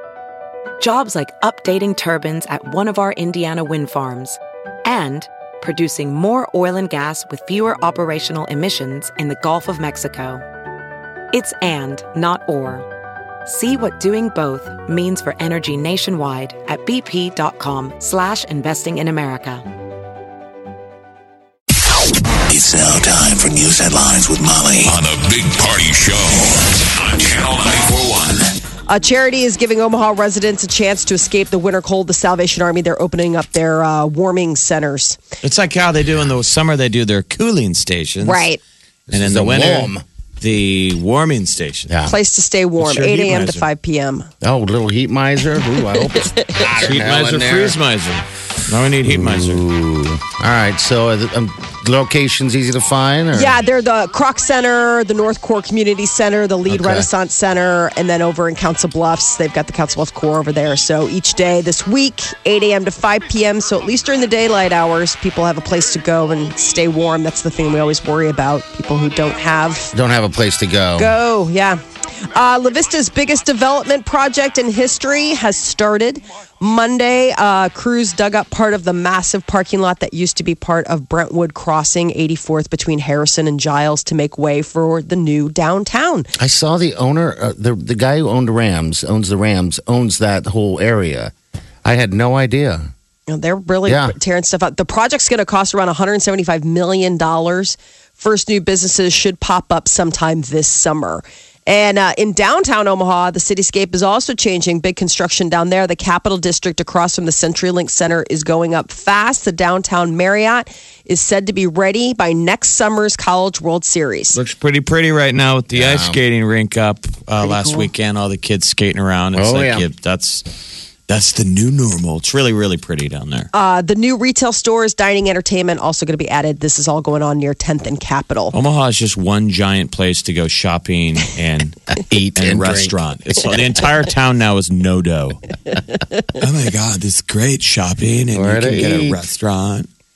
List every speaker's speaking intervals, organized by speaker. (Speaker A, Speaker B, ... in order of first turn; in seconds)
Speaker A: 0.8-10.4, 11.3-12.9, 13.4-19.6
Speaker B: 22.5-28.5
Speaker C: 28.9-35.2, 38.2-38.6, 42.0-44.3, 45.9-46.5, 53.3-69.9, 71.0-86.3, 93.3-114.4, 117.5-117.8, 123.5-128.5
Speaker D: 35.4-38.4, 39.1-41.9, 42.8-43.6, 46.7-49.6, 114.3-120.4, 121.1-123.5, 128.5-131.8, 132.3-135.5, 136.3-139.9
Speaker E: 39.1-40.0, 44.4-47.8, 49.0-53.6, 56.7-57.1, 69.9-71.1, 86.4-91.3, 91.8-92.9, 93.8-94.1, 115.7-116.2, 119.3-119.8, 131.9-132.9, 138.3-139.2